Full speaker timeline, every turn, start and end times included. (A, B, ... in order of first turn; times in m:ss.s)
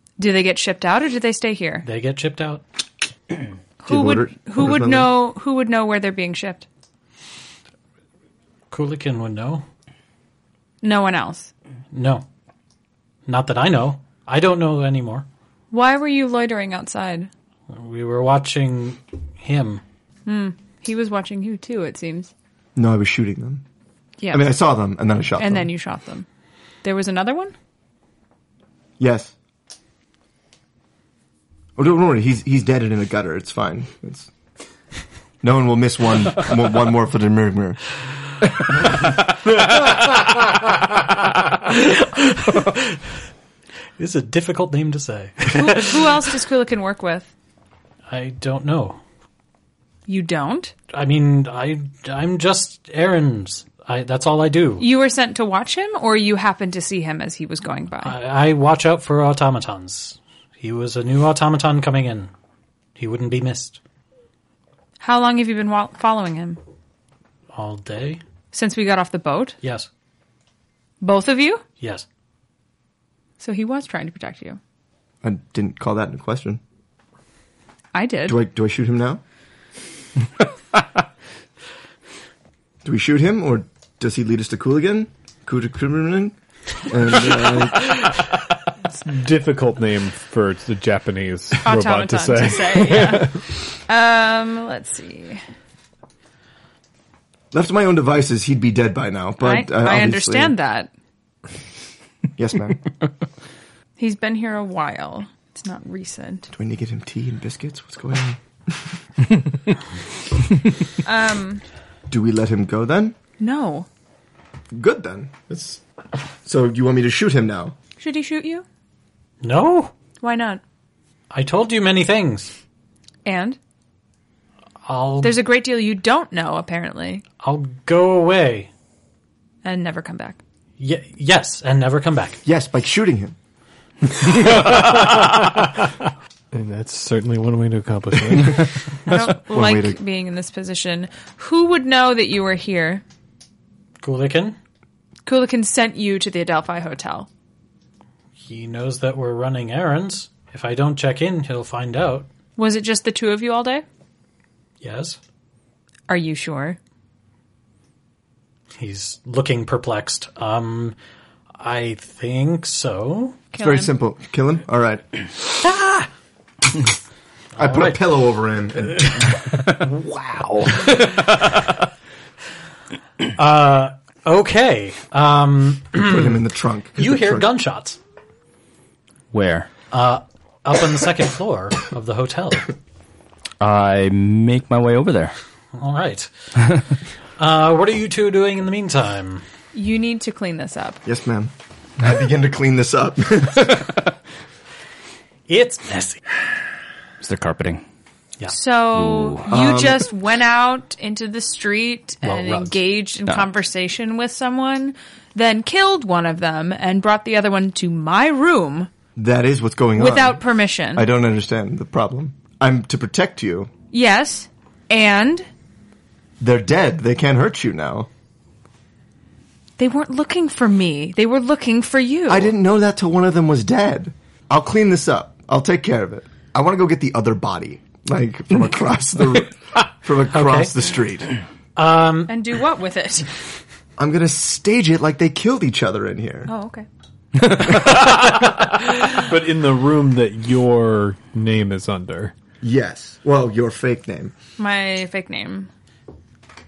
0:00.2-0:01.8 A
0:01.8-0:02.6 B
0:03.8-0:06.7 A
0:03.9-0:05.2 C
0:08.7-0:09.6 B
0:10.8-0:11.5 A
0:11.9-0:12.2 B
0:13.3-0:15.3 B
0:15.7-0:17.3 A
0:17.7-0:19.8 B
0:20.3-0:22.3 A
0:22.8-0:23.6 C
0:24.2-0:24.6 A
0:24.3-0:25.7 C
0:25.4-0:26.2 A
0:26.8-0:27.5 A
0:29.0-0:29.3 C
0:31.8-0:34.3 C
0:35.4-0:37.8 C
0:41.7-0:43.0 B
0:44.0-0:46.1 B
0:45.5-0:47.3 A
0:48.1-0:49.0 B
0:50.1-0:50.7 A
0:50.9-0:54.9 B
0:54.8-0:58.2 A
0:58.0-1:02.3 B
1:03.0-1:03.8 B
1:05.0-1:06.6 A
1:07.5-1:08.2 B
1:08.5-1:09.6 A
1:09.6-1:09.9 B
1:11.0-1:11.6 A
1:11.8-1:12.0 B
1:13.4-1:14.6 A
1:15.2-1:16.6 C
1:17.9-1:18.4 A
1:18.3-1:19.2 C
1:22.8-1:28.0 C
1:28.9-1:33.4 D
1:31.6-1:35.4 A
1:37.5-1:40.6 C
1:39.4-1:40.9 A
1:42.4-1:42.8 C
1:44.0-1:46.5 A
1:46.5-1:49.0 C
1:51.0-1:51.6 A
1:52.1-1:53.2 C
1:53.4-1:53.9 A
1:54.7-1:55.8 C
1:56.4-1:57.8 C
1:58.0-1:58.6 A
1:59.4-1:59.9 B
2:00.2-2:00.6 A
2:01.3-2:02.5 B
2:03.2-2:03.6 A
2:04.9-2:05.4 B
2:05.2-2:07.2 A
2:07.4-2:08.7 B
2:09.6-2:10.4 A
2:10.8-2:12.4 B
2:12.4-2:13.4 C
2:14.2-2:15.9 D
2:16.5-2:18.8 D
2:19.1-2:23.0 A
2:19.4-2:20.0 C
2:24.0-2:24.6 B
2:25.2-2:27.3 A
2:28.4-2:32.3 B
2:32.6-2:33.8 A
2:34.8-2:35.2 B
2:36.1-2:36.8 A
2:38.8-2:41.0 B
2:41.6-2:43.4 B
2:43.5-2:43.9 A
2:43.6-2:45.0 C
2:45.6-2:46.1 B
2:47.6-2:48.0 B
2:47.6-2:49.3 C
2:49.7-2:51.6 E
2:53.3-2:56.4 B
2:55.9-2:57.5 C
2:57.0-2:58.0 B
2:59.3-2:59.7 E
2:59.9-3:02.7 B
3:03.6-3:05.4 E
3:05.8-3:06.3 B
3:07.4-3:09.4 B
3:09.7-3:11.0 A
3:11.0-3:13.9 C
3:15.5-3:16.2 B
3:17.2-3:17.8 E
3:18.5-3:28.9 A
3:18.9-3:19.5 E
3:19.5-3:20.1 C
3:22.2-3:22.8 B
3:29.2-3:30.4 C
3:30.0-3:31.1 A
3:30.9-3:33.7 C
3:33.9-3:35.5 A
3:36.4-3:38.1 C
3:39.8-3:42.5 A
3:42.3-3:51.3 C
3:50.3-3:50.8 B
3:51.8-3:52.3 B
3:52.3-3:53.3 A
3:54.0-3:56.5 C
3:56.5-3:56.9 A
3:57.4-3:58.1 E
3:59.0-4:02.3 D
4:02.6-4:04.3 C
4:04.6-4:05.7 A